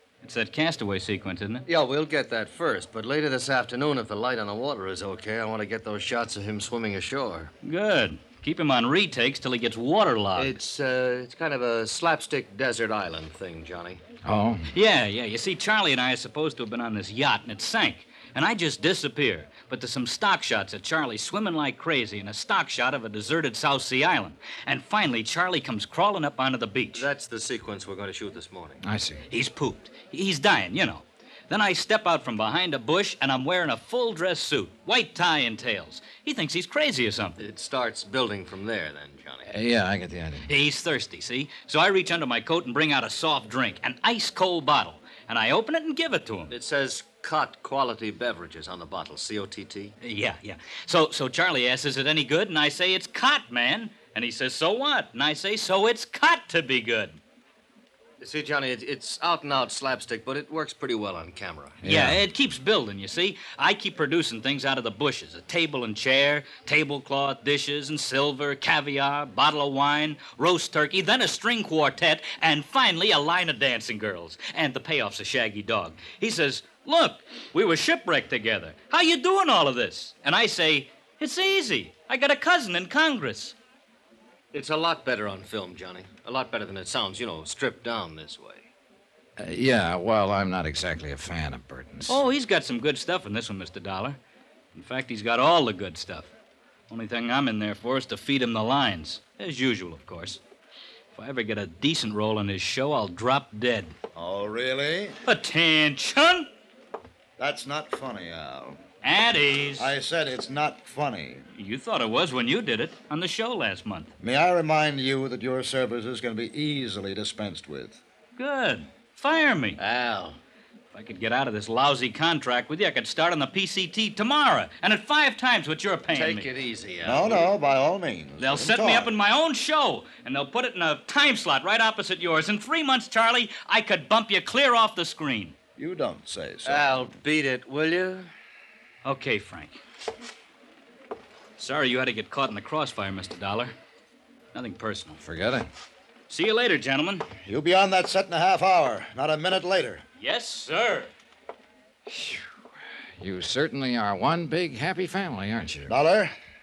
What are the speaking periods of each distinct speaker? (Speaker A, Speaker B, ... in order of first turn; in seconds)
Speaker A: 0.2-1.6, 7.6-10.6, 14.7-27.1, 29.3-37.4, 40.5-46.5, 50.0-57.2, 61.8-83.5, 92.1-94.2, 94.7-96.3, 96.9-100.4, 101.1-103.9, 105.2-106.5, 109.0-109.9, 111.6-114.1, 118.4-119.8, 120.9-126.5, 128.4-135.6, 139.0-139.7, 141.6-143.7, 144.5-145.2, 146.3-147.2, 150.2-151.1
Speaker B: 1.6-7.5, 10.3-14.0, 26.9-28.8, 37.4-39.5, 46.5-49.9, 58.2-61.8, 84.5-88.7, 119.8-120.4, 126.1-127.5, 136.6-138.3
Speaker C: 14.2-14.7, 28.8-29.2, 39.5-40.5, 61.8-62.2, 89.4-92.2, 145.2-145.7, 152.1-152.4, 153.2-155.9
Speaker D: 104.1-105.2, 107.4-108.8, 109.8-111.5, 114.2-118.0, 127.0-129.1, 135.8-137.0, 147.4-150.0, 155.9-156.3